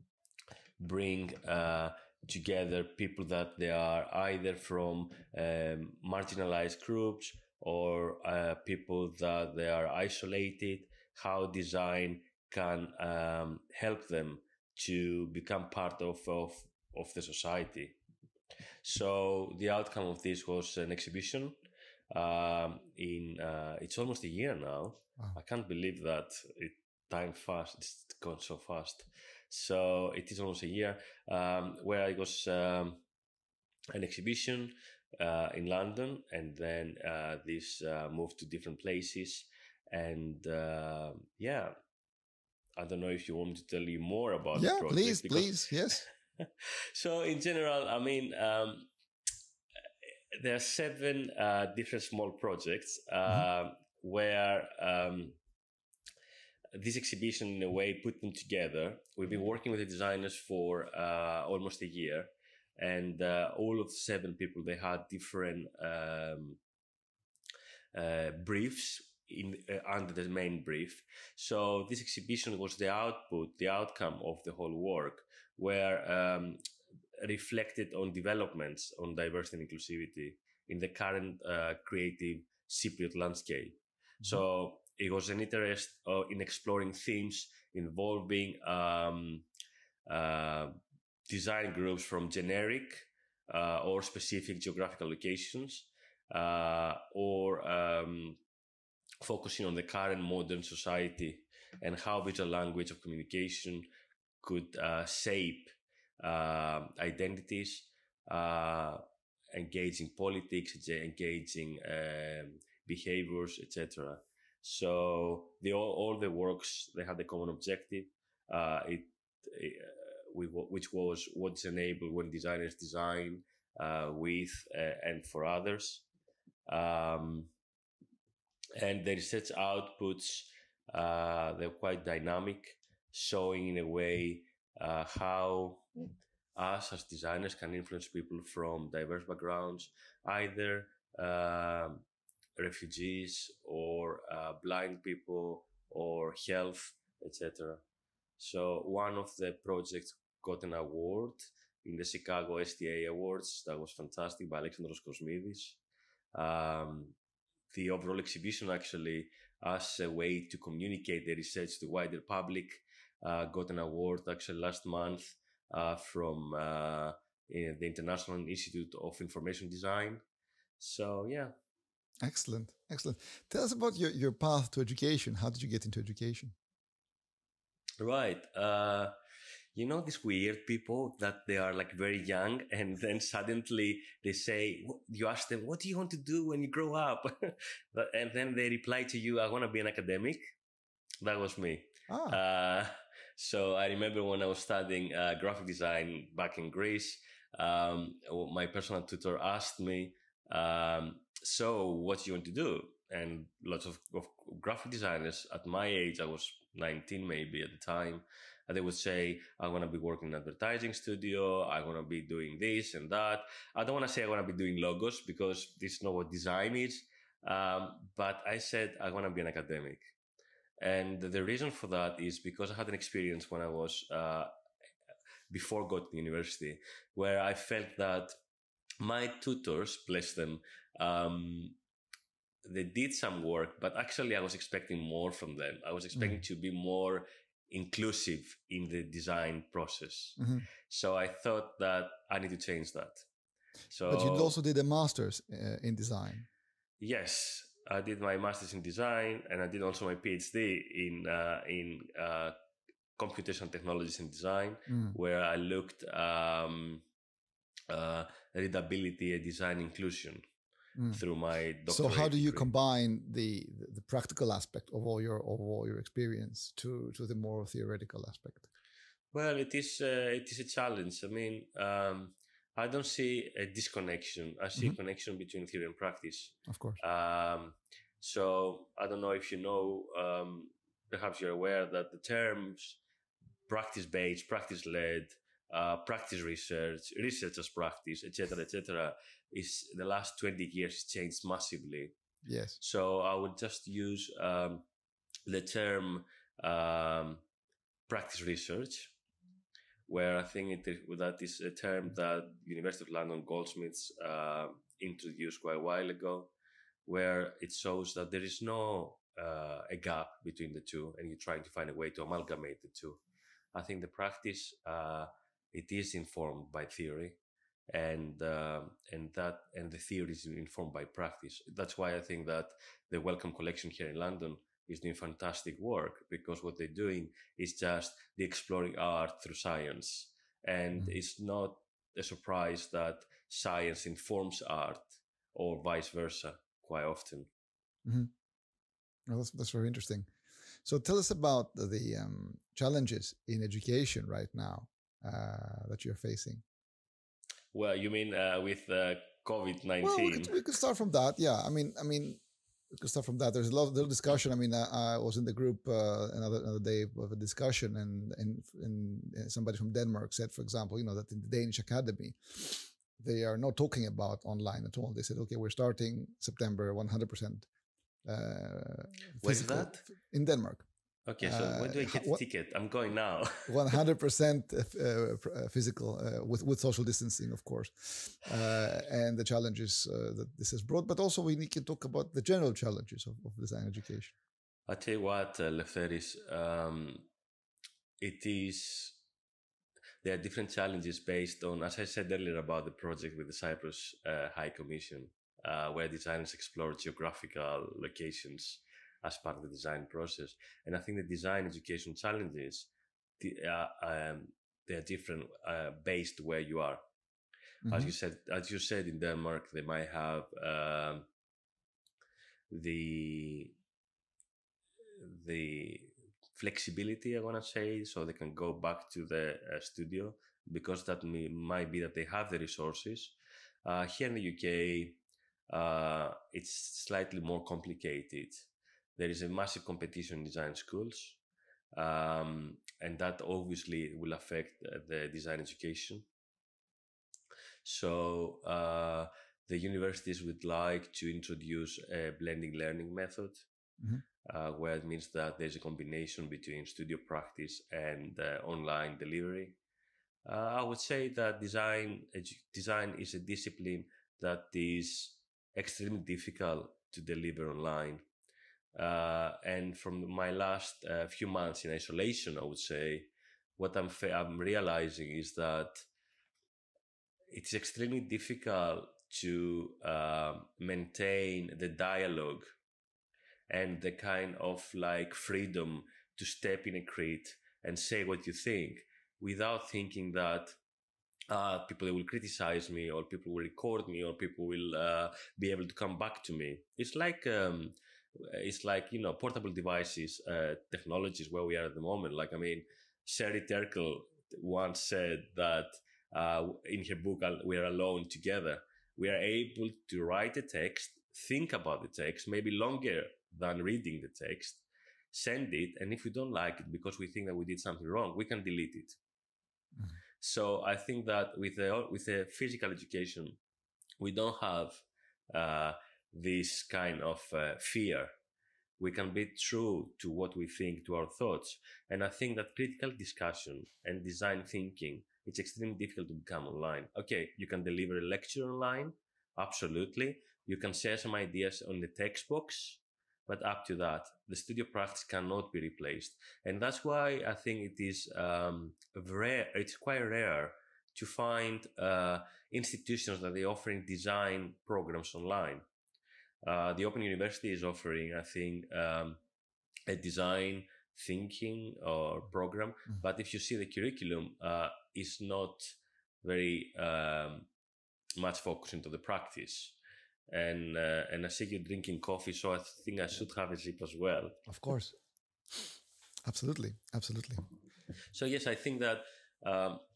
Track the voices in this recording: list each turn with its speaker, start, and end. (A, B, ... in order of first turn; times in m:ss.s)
0:00.8-0:18.0 A
0:18.8-0:21.5 A
0:22.1-0:33.0 A
0:33.9-0:41.7 A
0:42.8-0:48.9 A
0:44.6-0:46.0 B
0:50.3-0:55.4 A
0:56.7-1:06.6 A
1:07.9-1:16.6 A
1:17.2-1:29.5 A
1:30.1-1:30.8 A
1:31.3-1:38.4 A
1:39.2-1:43.9 A
1:44.4-1:49.0 A
1:49.5-2:06.1 A
2:06.7-2:07.5 A
2:08.8-2:15.9 A
2:16.6-2:22.0 A
2:22.6-2:27.8 A
2:28.4-2:35.8 A
2:36.3-2:37.2 A
2:37.7-2:50.2 A
2:50.8-2:51.5 A
2:52.2-2:56.6 B
2:58.0-2:59.1 A
2:59.8-3:10.4 A
3:11.2-3:40.0 A
3:12.1-3:12.4 B
3:40.8-3:44.5 A
3:45.5-3:48.3 A
3:49.0-3:51.8 A
3:52.6-4:03.2 A
3:56.2-3:56.4 B
4:00.4-4:00.6 B
4:03.9-4:04.6 A
4:04.1-4:06.5 B
4:07.0-4:12.5 A
4:13.2-4:17.0 A
4:14.9-4:15.2 B
4:17.9-4:20.4 A
4:21.0-4:21.2 B
4:21.1-4:22.7 A
4:21.9-4:28.7 B
4:29.3-4:43.0 A
4:36.7-4:37.0 B
4:43.7-4:52.2 A
4:52.4-4:52.8 B
4:52.8-4:54.9 A
4:55.5-4:57.4 A
4:58.1-4:59.1 A
5:00.1-5:06.5 A
5:07.1-5:13.2 A
5:13.7-5:17.4 A
5:17.9-5:37.5 A
5:38.0-5:38.3 B
5:39.3-5:40.3 B
5:40.8-5:46.6 B
5:47.7-5:50.6 A
5:50.0-5:52.4 B
5:52.9-6:07.7 B
6:08.2-6:10.9 B
6:09.4-6:10.0 A
6:11.3-6:14.0 A
6:11.4-6:12.4 B
6:13.7-6:24.4 B
6:24.9-6:27.3 A
6:28.2-6:29.2 A
6:30.2-6:47.0 A
6:47.8-6:48.1 B
6:47.9-6:51.3 A
6:52.7-6:53.8 A
6:55.2-7:11.4 A
7:11.9-7:16.3 A
7:17.8-7:23.7 A
7:24.4-7:29.8 A
7:30.5-7:38.2 A
7:39.0-7:46.1 A
7:47.5-7:52.7 A
7:53.7-8:00.8 A
8:01.5-8:29.2 A
8:30.4-8:33.6 A
8:34.2-8:38.3 A
8:39.0-9:05.8 A
9:06.6-9:09.4 A
9:10.1-9:17.7 A
9:18.4-9:20.0 A
9:20.5-9:24.6 A
9:24.7-9:25.2 B
9:26.4-9:27.6 B
9:28.3-9:30.0 A